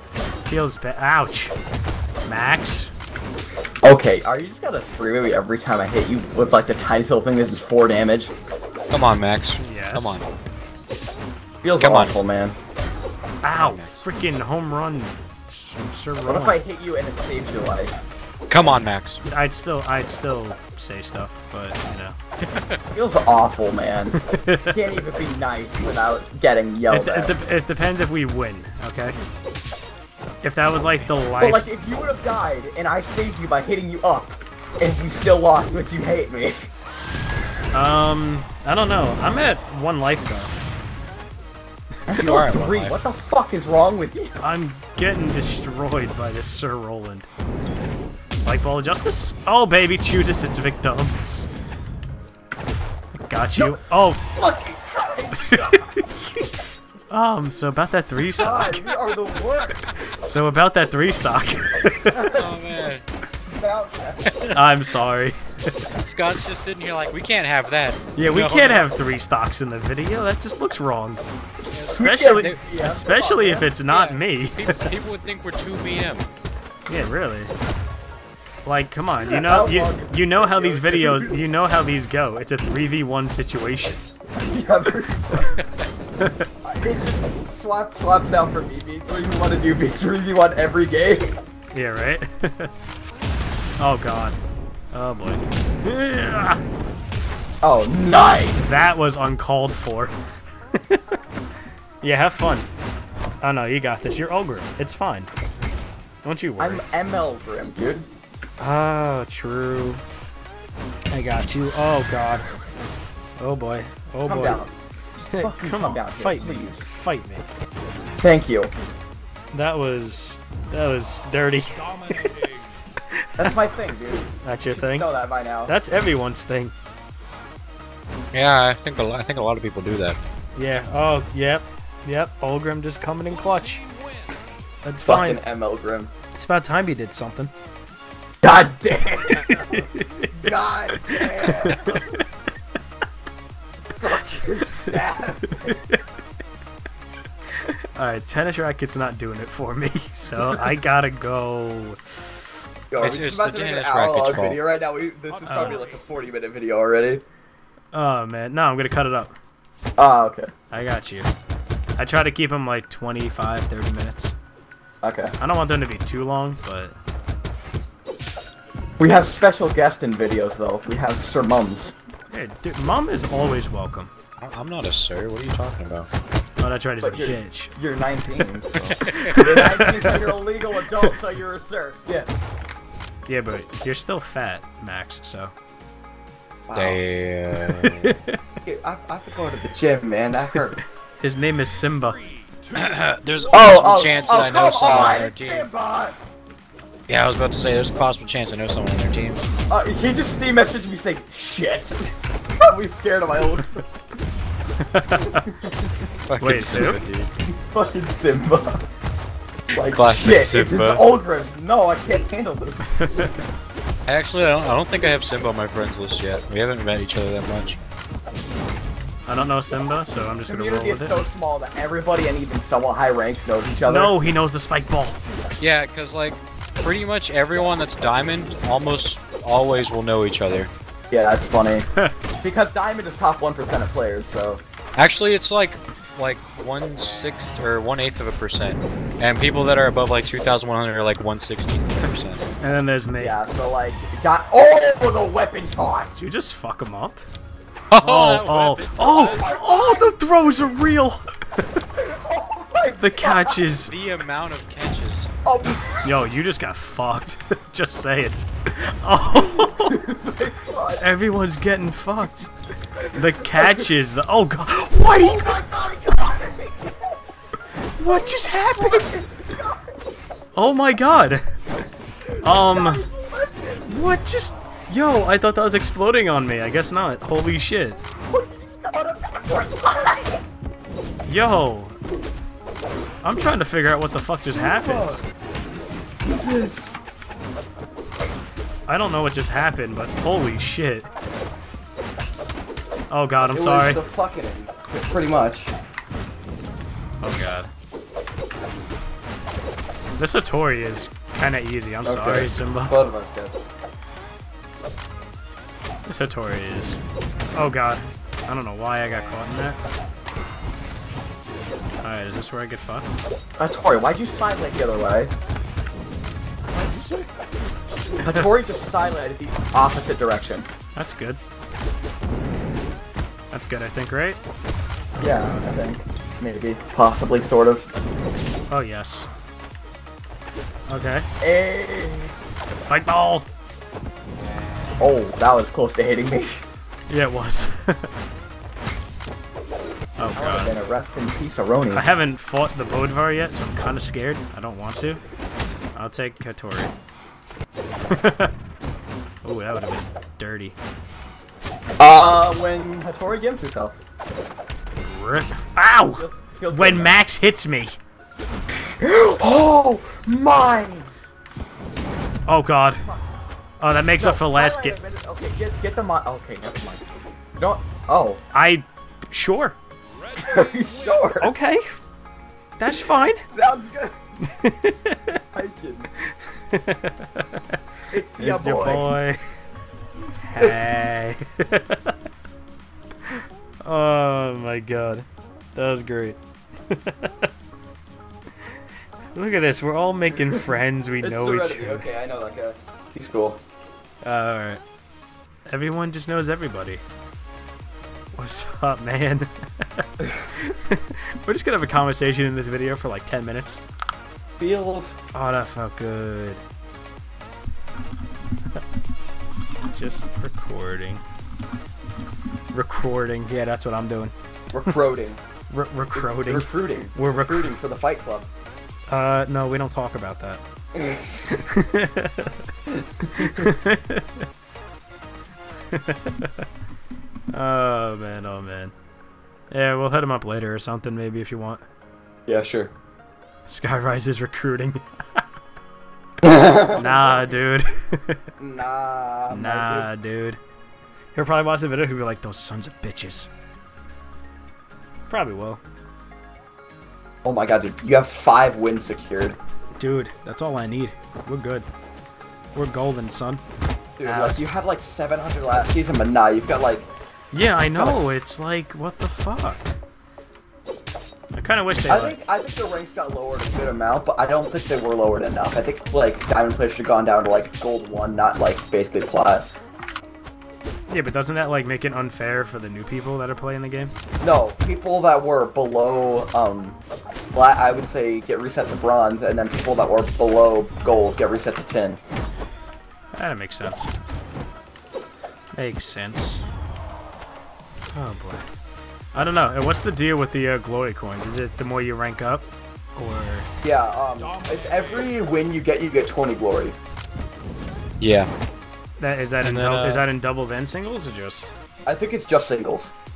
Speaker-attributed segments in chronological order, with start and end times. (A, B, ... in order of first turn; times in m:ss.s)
0:00.5-0:01.5 A
0:02.2-0:02.9 A
0:03.8-0:08.3 B
0:08.9-0:10.3 C
0:09.6-0:10.2 A
0:11.6-0:12.6 B
0:11.8-0:12.2 C
0:13.4-0:16.6 A
0:13.5-0:14.0 C
0:16.3-0:18.0 B
0:18.5-0:19.2 C
0:19.2-0:22.2 A
0:22.4-0:22.8 C
0:22.9-0:24.2 B
0:24.1-0:25.0 A
0:24.7-0:27.3 B
0:26.9-0:29.2 A
0:30.4-0:31.7 A
0:31.4-0:36.7 B
0:37.7-0:40.5 A
0:42.1-0:44.4 B
0:42.1-0:42.9 C
0:44.4-0:47.3 A
0:48.3-0:51.5 A
0:53.2-0:54.3 A
0:53.6-0:56.0 B
0:55.4-0:56.5 A
0:57.1-0:59.1 A
0:58.4-0:59.9 B
1:00.1-1:02.3 A
1:02.1-1:02.7 B
1:02.3-1:03.0 C
1:03.4-1:04.6 B
1:04.3-1:04.5 C
1:04.5-1:05.9 A
1:06.0-1:08.9 C
1:08.2-1:11.2 A
1:11.7-1:13.7 B
1:11.7-1:12.6 C
1:11.9-1:14.9 A
1:13.9-1:16.3 C
1:16.9-1:17.5 A
1:18.6-1:24.0 A
1:19.2-1:21.4 B
1:24.4-1:25.6 B
1:26.2-1:26.5 A
1:26.6-1:31.4 B
1:31.7-1:32.7 A
1:33.8-1:34.4 A
1:34.9-1:36.6 A
1:37.6-1:38.6 B
1:38.6-1:40.1 A
1:40.7-1:41.0 A
1:42.0-1:42.7 A
1:43.4-1:45.3 A
1:46.2-1:46.8 A
1:46.6-1:48.1 B
1:48.6-1:50.0 A
1:51.1-1:52.5 A
1:53.4-1:54.6 A
1:54.3-1:54.7 B
1:55.2-1:57.5 A
1:55.3-1:56.9 B
1:58.2-1:58.7 B
1:59.5-2:02.5 A
2:03.1-2:03.5 A
2:03.4-2:05.7 B
2:04.4-2:05.1 A
2:05.7-2:06.7 A
2:08.3-2:10.2 C
2:10.6-2:13.8 A
2:14.8-2:15.4 A
2:15.0-2:16.1 B
2:16.3-2:17.5 A
2:18.4-2:22.1 B
2:19.3-2:20.4 A
2:20.9-2:22.2 A
2:24.0-2:25.5 B
2:25.5-2:26.0 A
2:27.6-2:32.4 A
2:32.9-2:37.2 B
2:33.0-2:34.6 C
2:35.4-2:35.8 A
2:37.9-2:39.4 A
2:40.0-2:40.5 B
2:40.7-2:41.3 A
2:42.0-2:44.3 A
2:45.0-2:45.4 B
2:45.4-2:47.0 A
2:49.0-2:51.9 B
2:52.3-2:54.1 A
2:54.4-2:56.1 C
2:56.6-2:57.7 A
2:57.0-3:02.3 B
2:58.8-2:59.4 C
2:59.1-3:00.3 A
3:03.3-3:05.5 A
3:06.7-3:07.0 B
3:06.7-3:08.2 C
3:07.6-3:08.4 A
3:08.6-3:11.0 B
3:11.2-3:12.2 A
3:12.7-3:15.7 C
3:13.5-3:16.2 B
3:17.1-3:19.4 C
3:19.7-3:23.9 B
3:24.8-3:25.5 A
3:25.2-3:25.9 B
3:26.3-3:27.3 C
3:26.4-3:27.0 A
3:27.5-3:28.8 B
3:29.7-3:32.9 B
3:29.8-3:31.0 C
3:32.9-3:33.3 A
3:34.1-3:37.8 C
3:39.3-3:41.2 A
3:40.5-3:44.2 B
3:43.9-3:45.2 A
3:45.6-3:50.7 C
3:51.1-3:51.8 B
3:52.4-3:54.6 B
3:55.0-4:02.4 C
4:02.6-4:03.4 A
4:03.2-4:06.2 B
4:06.2-4:07.2 A
4:07.9-4:09.5 C
4:08.0-4:11.8 A
4:09.2-4:10.1 B
4:12.0-4:13.6 B
4:13.0-4:13.9 A
4:13.9-4:15.3 C
4:15.4-4:16.2 B
4:16.0-4:20.0 A
4:19.3-4:21.0 B
4:21.0-4:22.5 A
4:23.1-4:25.6 A
4:23.4-4:23.8 B
4:25.1-4:27.2 B
4:28.0-4:29.1 A
4:28.0-4:30.0 B
4:30.6-4:31.4 A
4:32.3-4:33.9 B
4:32.4-4:33.0 A
4:33.9-4:38.0 A
4:38.3-4:40.4 B
4:41.3-4:42.0 A
4:43.2-4:45.2 A
4:44.5-4:45.2 B
4:46.2-4:47.0 B
4:48.9-4:51.1 A
4:53.1-4:54.0 A
4:53.5-4:55.7 B
4:57.2-4:57.7 A
5:00.2-5:03.0 A
5:02.0-5:03.6 B
5:06.1-5:07.0 A
5:07.6-5:09.8 A
5:12.0-5:13.1 A
5:13.6-5:15.3 B
5:16.7-5:17.3 A
5:18.2-5:20.7 B
5:18.2-5:18.5 A
5:21.0-5:21.4 A
5:23.5-5:24.4 A
5:25.2-5:25.7 A
5:25.2-5:27.9 B
5:28.7-5:29.3 A
5:30.9-5:31.3 A
5:31.4-5:32.3 B
5:32.9-5:33.5 A
5:35.0-5:36.6 B
5:37.1-5:38.1 A
5:40.2-5:40.8 A
5:40.3-5:42.1 B
5:41.9-5:45.2 A
5:46.0-5:46.9 A
5:48.1-5:48.5 A
5:49.4-5:50.8 A
5:52.0-5:54.0 B
5:55.0-5:58.0 A
5:56.1-5:57.2 B
5:59.0-6:01.1 B
6:02.5-6:03.1 A
6:03.8-6:05.0 A
6:04.2-6:07.0 B
6:07.6-6:08.4 B
6:08.5-6:09.8 A
6:10.4-6:11.6 B
6:11.4-6:12.0 A
6:12.8-6:13.5 A
6:13.5-6:14.2 B
6:14.4-6:15.4 A
6:15.5-6:16.1 B
6:16.2-6:17.8 A
6:18.1-6:19.2 B
6:18.4-6:19.4 A
6:20.4-6:22.1 A
6:23.3-6:27.5 A
6:29.3-6:32.1 A
6:30.4-6:30.7 B
6:31.2-6:33.6 B
6:34.2-6:34.8 A
6:35.7-6:37.0 A
6:38.4-6:43.8 A
6:44.6-6:45.2 B
6:45.3-6:46.6 A
6:49.9-6:51.2 A
6:52.7-6:54.3 A
6:54.7-6:55.4 B
6:55.7-6:57.7 A
6:56.1-6:58.5 B
6:59.1-7:00.6 A
7:00.9-7:01.5 B
7:01.5-7:02.6 A
7:03.2-7:04.4 A
7:03.4-7:03.6 B
7:05.9-7:06.6 A
7:07.5-7:08.9 A
7:09.7-7:11.8 A
7:12.5-7:12.9 B
7:13.7-7:15.4 A
7:16.4-7:17.6 B
7:16.9-7:18.4 A
7:18.6-7:20.1 B
7:19.5-7:20.6 A
7:21.4-7:23.5 A
7:25.3-7:25.8 A
7:27.4-7:29.6 B
7:30.0-7:31.9 A
7:32.7-7:33.6 A
7:34.2-7:37.1 B
7:34.2-7:34.6 A
7:37.5-7:40.0 A
7:38.0-7:38.3 B
7:41.6-7:42.4 A
7:42.1-7:49.7 B
7:51.1-7:54.1 A
7:54.4-7:57.0 B
7:57.5-8:02.2 B
8:03.3-8:04.1 A
8:05.7-8:06.6 A
8:08.1-8:08.6 A
8:09.3-8:13.7 A
8:13.8-8:17.0 B
8:18.2-8:18.5 C
8:19.2-8:21.7 A
8:19.6-8:20.2 C
8:22.1-8:23.1 B